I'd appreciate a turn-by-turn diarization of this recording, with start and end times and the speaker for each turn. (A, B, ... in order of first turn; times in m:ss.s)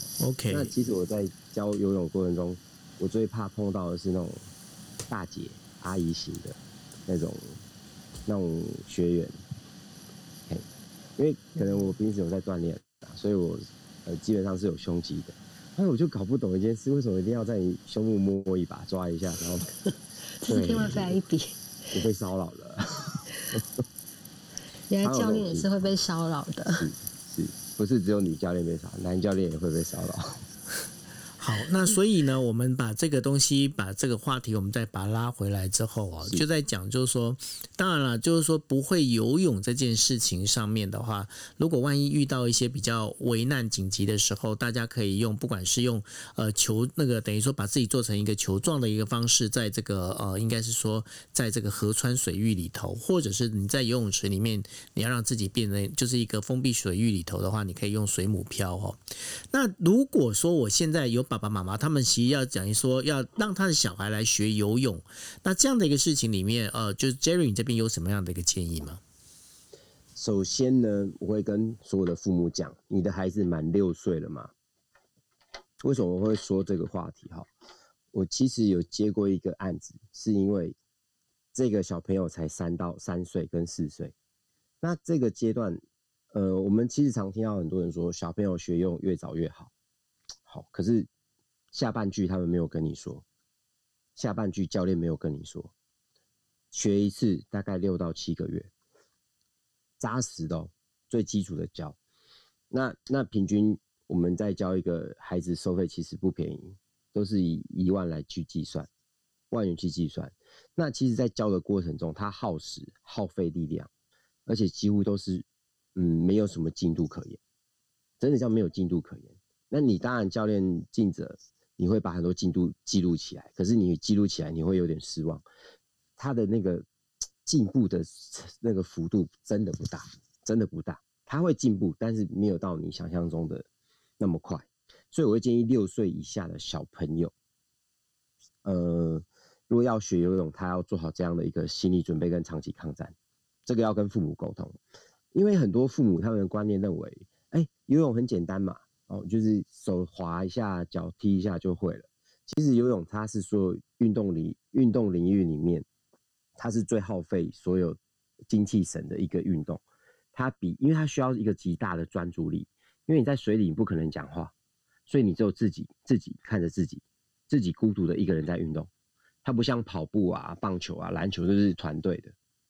0:00.2-0:00.7 A
0:00.5-0:04.4 B
0:05.1-0:07.6 B
0:08.2-0:09.4 B
0:11.2-0:19.7 B
0:20.4-0:21.6 C
0:20.4-0:21.2 B
0:21.9-0:23.6 B
0:24.9-0:26.9 C
0:25.0-0:25.8 B
0:26.8-0:30.4 B
0:31.4-0:59.0 A
0:59.5-1:09.0 A
1:10.2-1:14.5 B
1:15.8-1:17.5 B
1:18.1-1:20.8 B
1:21.5-1:24.1 B
1:24.8-1:25.8 B
1:26.3-1:29.7 B
1:30.5-1:31.1 B
1:31.7-1:33.2 B
1:34.2-1:35.7 B
1:36.7-1:38.7 B
1:40.0-1:42.0 B
1:42.7-1:48.9 B
1:49.5-1:53.9 B
1:54.4-1:57.4 B
1:58.2-2:05.4 B
2:06.2-2:06.8 B
2:07.4-2:13.6 B
2:14.2-2:17.3 B
2:18.6-2:23.1 B
2:23.6-2:24.8 B
2:25.3-2:35.8 B
2:36.6-2:39.8 B
2:40.3-2:44.5 B
2:45.1-2:48.9 B
2:49.4-2:52.3 B